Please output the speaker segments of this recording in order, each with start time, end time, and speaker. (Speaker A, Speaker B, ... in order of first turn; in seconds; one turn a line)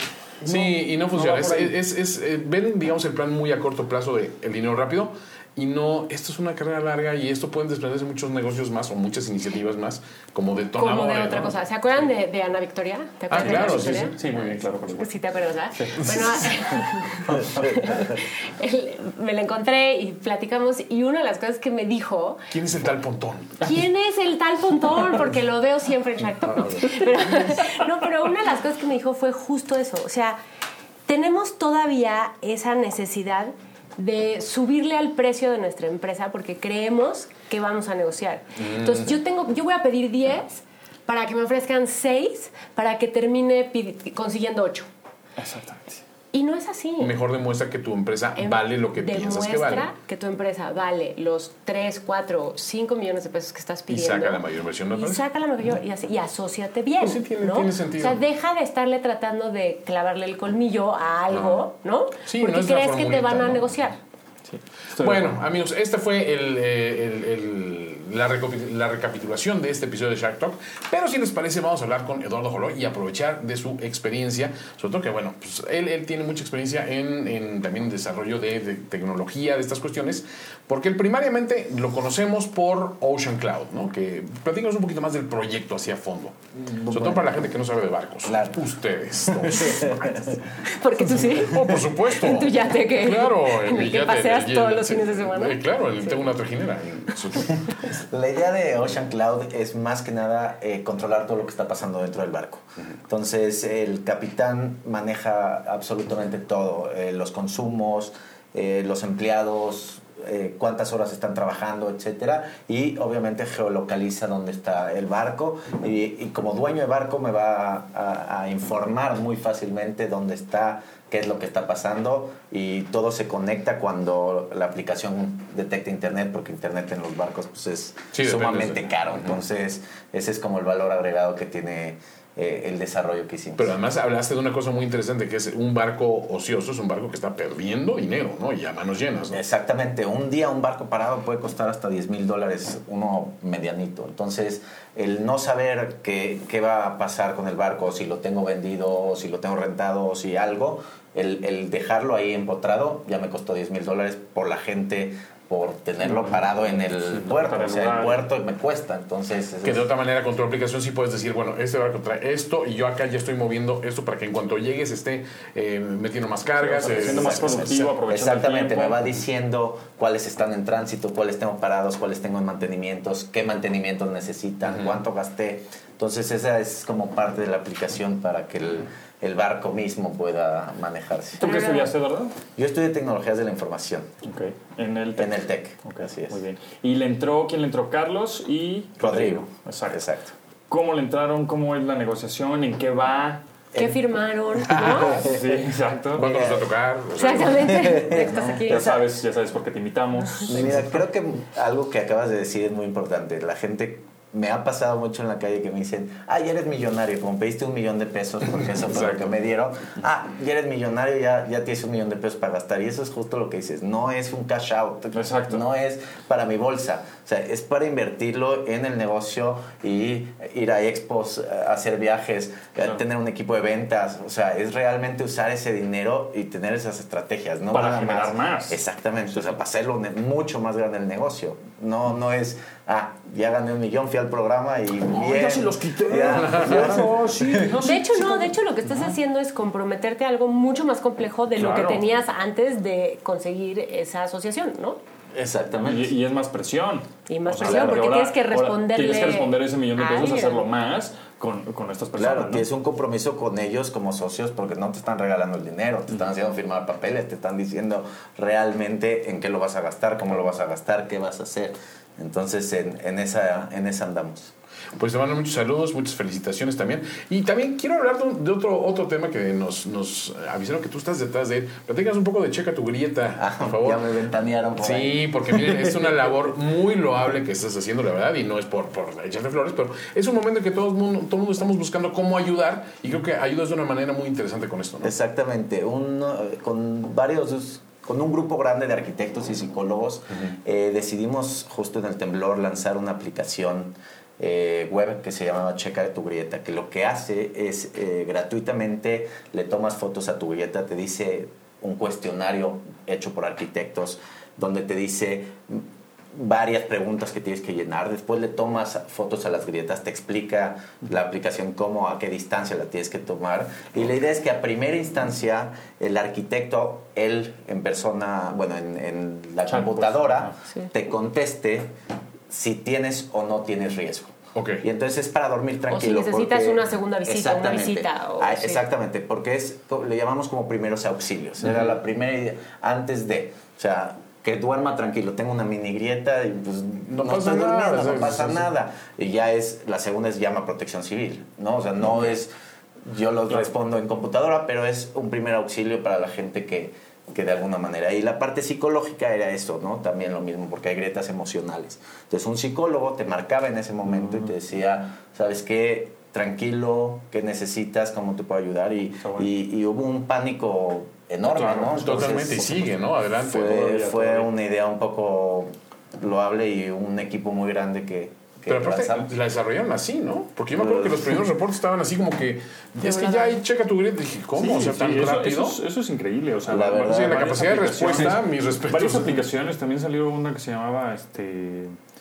Speaker A: 0.4-1.8
Speaker B: 0.5-11.6
Speaker C: 10.8-14.2
Speaker B: 13.3-14.6
Speaker A: 13.4-15.1
Speaker C: 14.9-22.4
Speaker A: 15.8-16.5
Speaker B: 22.5-23.7
Speaker C: 23.6-30.4
Speaker C: 31.1-44.9
Speaker B: 38.6-39.1
Speaker A: 45.4-46.0
Speaker C: 46.3-47.2
Speaker B: 47.0-49.9
Speaker C: 48.4-64.0
Speaker B: 53.9-55.2
Speaker B: 57.0-58.2
Speaker B: 61.3-61.6
Speaker B: 62.3-63.7
Speaker A: 64.5-65.4
Speaker B: 65.0-90.1
Speaker D: 86.6-87.4
Speaker D: 88.3-88.6
Speaker D: 89.3-90.4
Speaker C: 90.7-96.3
Speaker B: 91.2-97.7
Speaker D: 97.8-133.8
Speaker B: 128.1-129.3
Speaker B: 133.6-139.4
Speaker D: 139.3-159.9
Speaker A: 156.0-158.3
Speaker B: 159.6-167.8
Speaker A: 166.6-169.0
Speaker D: 166.8-181.5
Speaker B: 174.7-175.0
Speaker C: 181.4-181.9
Speaker A: 181.4-182.3
Speaker D: 182.6-184.1
Speaker A: 184.2-190.1
Speaker D: 185.2-186.4
Speaker D: 189.0-190.3
Speaker A: 190.7-193.4
Speaker D: 193.7-194.0
Speaker C: 193.8-195.3
Speaker A: 194.8-196.3
Speaker D: 194.9-195.4
Speaker D: 196.2-196.7
Speaker B: 196.2-197.9
Speaker C: 197.2-199.0
Speaker D: 197.3-199.0
Speaker A: 198.4-200.9
Speaker D: 200.5-237.7
Speaker A: 208.9-209.2
Speaker A: 215.1-215.6
Speaker A: 227.7-228.8
Speaker A: 235.1-238.5
Speaker B: 236.4-237.0
Speaker C: 237.8-245.0
Speaker A: 241.6-242.1
Speaker D: 245.3-246.1
Speaker A: 245.8-252.7
Speaker C: 247.3-250.7
Speaker D: 247.6-248.0
Speaker D: 252.2-264.5
Speaker B: 265.0-274.0
Speaker D: 273.4-275.9
Speaker B: 274.8-285.1
Speaker D: 285.0-321.9
Speaker A: 319.7-320.5
Speaker D: 322.5-342.5
Speaker B: 324.6-324.8
Speaker C: 325.9-328.8
Speaker B: 337.1-338.7
Speaker D: 343.0-362.9
Speaker A: 359.2-359.5
Speaker A: 361.5-362.2
Speaker B: 361.9-363.7
Speaker D: 363.4-369.3
Speaker A: 363.7-364.5
Speaker B: 368.7-375.8
Speaker D: 370.7-371.4
Speaker C: 373.0-373.6
Speaker A: 374.6-382.0
Speaker D: 376.7-377.6
Speaker B: 377.0-379.4